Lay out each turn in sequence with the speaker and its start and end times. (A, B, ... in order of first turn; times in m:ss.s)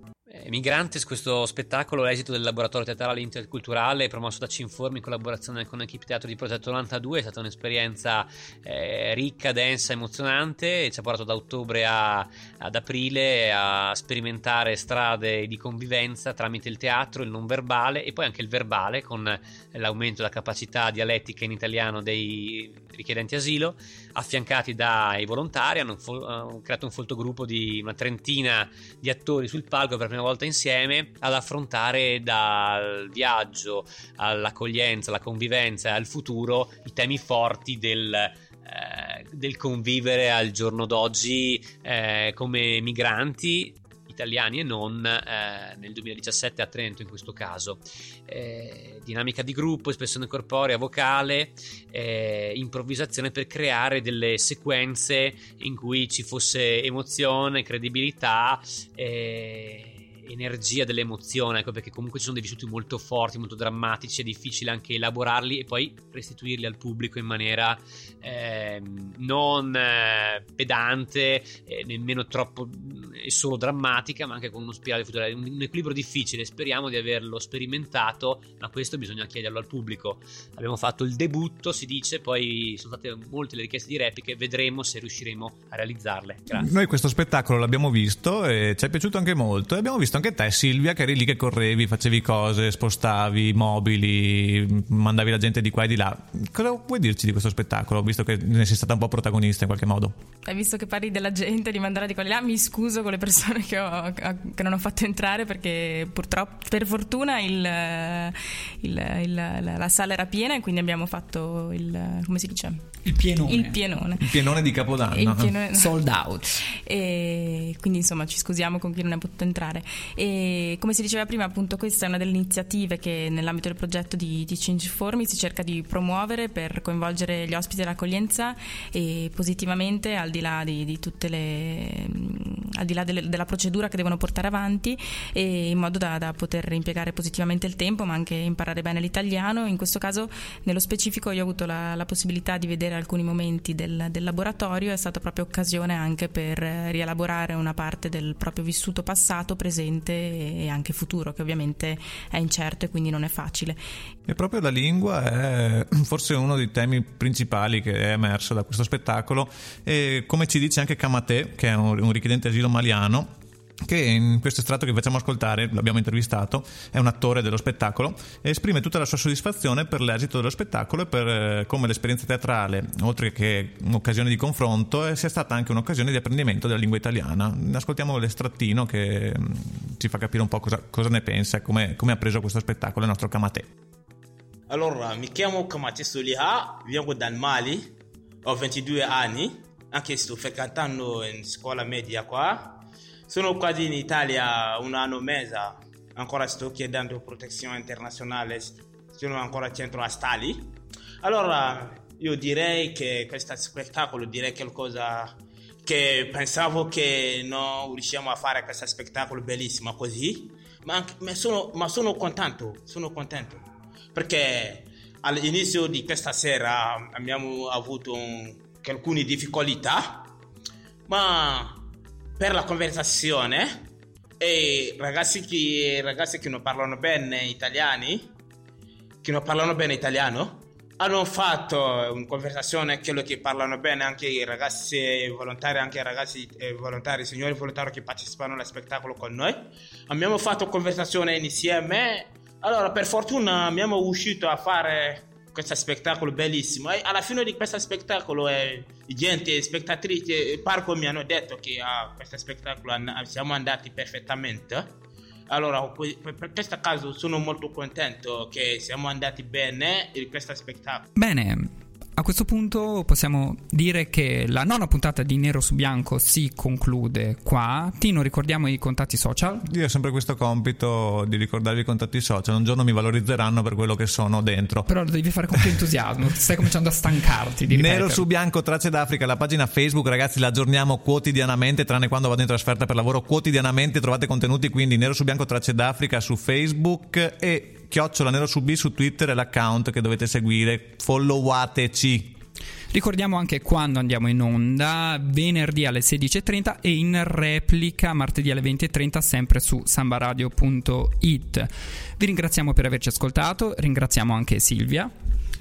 0:00.3-1:26.7 A
1:26.5-1:40.2 B
1:40.4-1:52.8 C
1:53.0-1:53.8 D
1:53.4-1:54.4 C
1:54.2-1:55.6 B
1:55.1-1:56.0 C
1:55.8-1:56.5 D
1:56.7-2:33.8 C
2:34.3-2:43.3 B
2:43.8-3:03.7 B
3:04.7-3:40.3 E
3:41.1-3:48.3 E
3:49.2-4:14.9 E
4:15.5-4:21.1 E
4:21.2-4:29.6 D
4:29.6-4:34.9 B
4:34.9-4:38.2 D
4:37.7-4:52.4 B
4:52.9-5:05.1 D